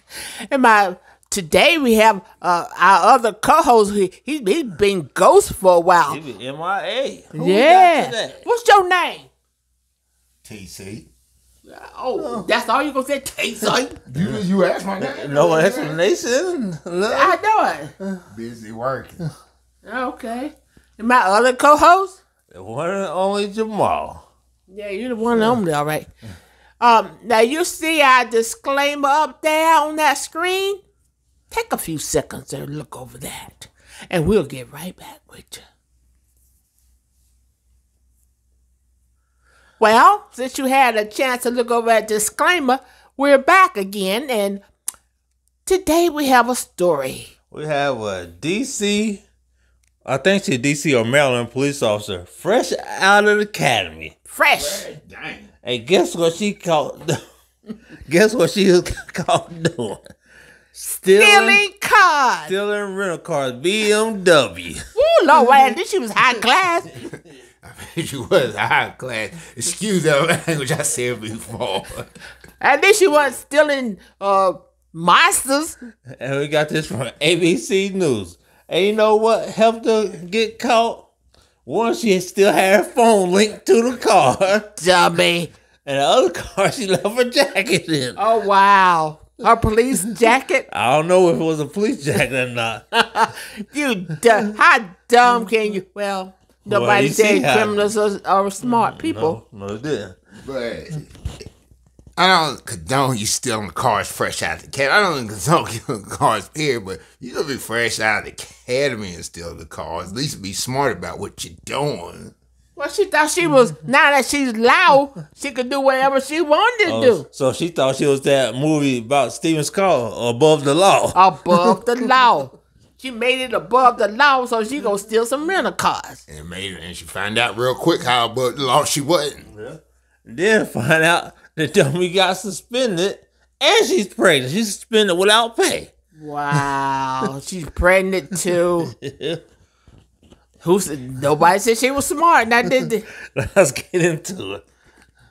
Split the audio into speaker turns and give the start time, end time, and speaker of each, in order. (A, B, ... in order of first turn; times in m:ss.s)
0:00.5-0:06.2 A
0:06.0-0:08.4 B
0:07.3-0:09.3 A
0:10.4-0:11.1 C
0:11.7-0:14.0 A
0:12.2-0:12.5 B
0:13.6-0:14.4 B
0:14.1-0:16.0 C
0:15.0-0:17.4 B
0:17.1-0:17.9 A
0:18.0-0:18.2 B
0:18.3-0:19.3 C
0:19.8-0:22.2 A
0:22.5-0:24.2 B
0:24.7-0:26.1 A
0:26.8-0:30.8 A
0:31.5-0:35.6 A
0:39.8-0:44.6 A
0:45.7-0:47.3 A
0:47.5-0:49.2 B
0:50.0-0:54.2 B
0:54.3-0:54.9 A
0:54.6-0:55.5 C
0:55.6-0:57.2 B
0:58.1-1:00.1 B
1:00.8-1:01.6 B
1:01.1-1:02.5 A
1:02.4-1:04.8 B
1:05.0-1:06.9 A
1:07.6-1:12.1 C
1:12.6-1:15.8 A
1:16.1-1:21.1 B
1:21.6-1:24.7 B
1:24.8-1:25.5 A
1:25.8-1:28.2 B
1:28.2-1:30.7 A
1:30.7-1:32.9 B
1:33.0-1:39.4 A
1:36.7-1:37.9 B
1:38.6-1:40.2 B
1:40.4-1:41.1 C
1:42.2-1:52.3 C
1:52.8-1:57.3 A
1:56.8-2:01.8 B
2:01.1-2:06.2 A
2:06.3-2:09.5 C
2:09.5-2:15.9 B
2:16.2-2:18.9 A
2:19.0-2:19.4 B
2:20.6-2:23.1 A
2:22.6-2:24.6 B